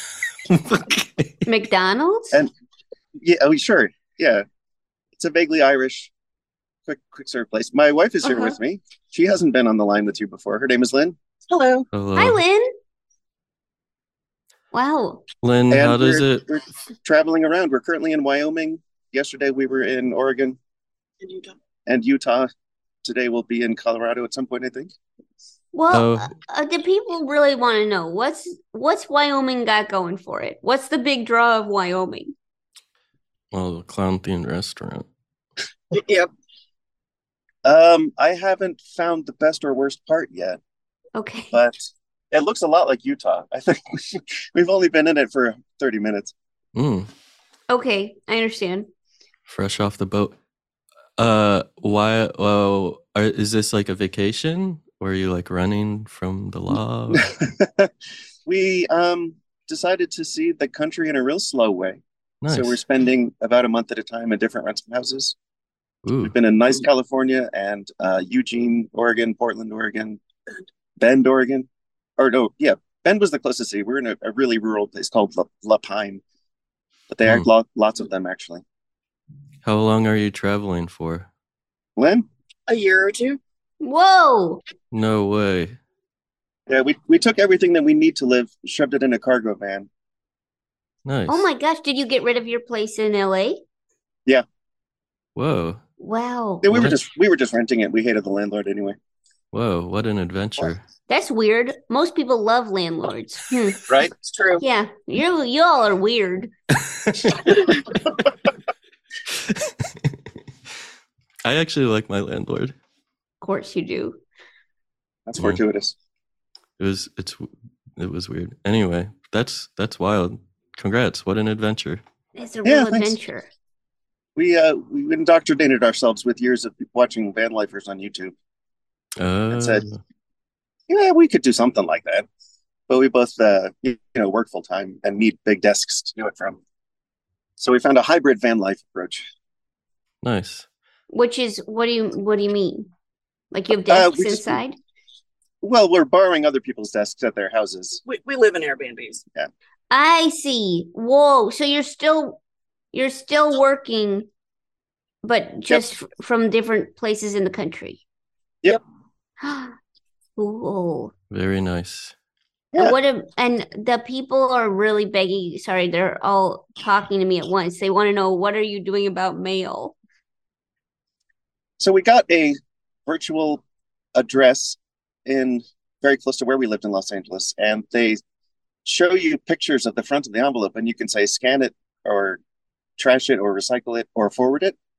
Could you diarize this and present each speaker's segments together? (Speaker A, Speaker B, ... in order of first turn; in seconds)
Speaker A: 0.5-1.4, 11.9-12.4, 15.4-16.5, 25.9-26.3, 33.5-35.1, 46.8-47.1, 49.5-50.4, 51.2-57.3, 62.4-62.8, 66.0-66.3, 79.6-81.3, 84.9-85.8, 91.0-91.5, 95.4-95.8, 96.7-97.0, 99.5-100.8, 109.3-110.2, 111.5-112.8, 116.8-122.0, 129.2-130.0, 140.2-140.7, 161.3-162.1
Speaker B: 1.5-2.4, 8.2-8.6, 12.2-12.7, 14.7-15.2, 25.7-32.3, 41.2-41.6, 47.7-48.9, 83.8-84.6, 91.3-93.6, 96.0-96.7, 101.1-103.8, 104.6-106.5, 113.4-114.2, 122.4-123.5, 141.1-142.9, 143.5-144.8, 149.9-152.4, 152.9-154.3, 155.2-158.0, 159.4-159.8, 160.4-161.1, 162.8-169.9
Speaker C: 3.2-4.5, 5.2-6.1, 6.9-11.2, 15.7-20.6, 21.9-22.5, 23.0-24.9, 37.6-40.6, 41.5-46.3, 57.1-57.9, 58.5-65.4, 66.2-70.2, 71.0-71.7, 72.2-76.2, 77.1-78.6, 82.0-82.3, 86.7-89.9, 96.6-99.0, 103.9-104.5, 115.3-116.0, 122.6-123.2, 124.4-128.3, 129.5-129.8, 130.9-132.3, 132.9-136.6, 137.6-139.3, 143.9-144.6, 145.6-148.0, 171.8-173.6, 174.2-178.2, 178.8-182.4, 183.0-184.8
Speaker D: 11.5-11.9, 21.2-21.6, 35.9-36.3, 82.7-83.4, 148.1-149.2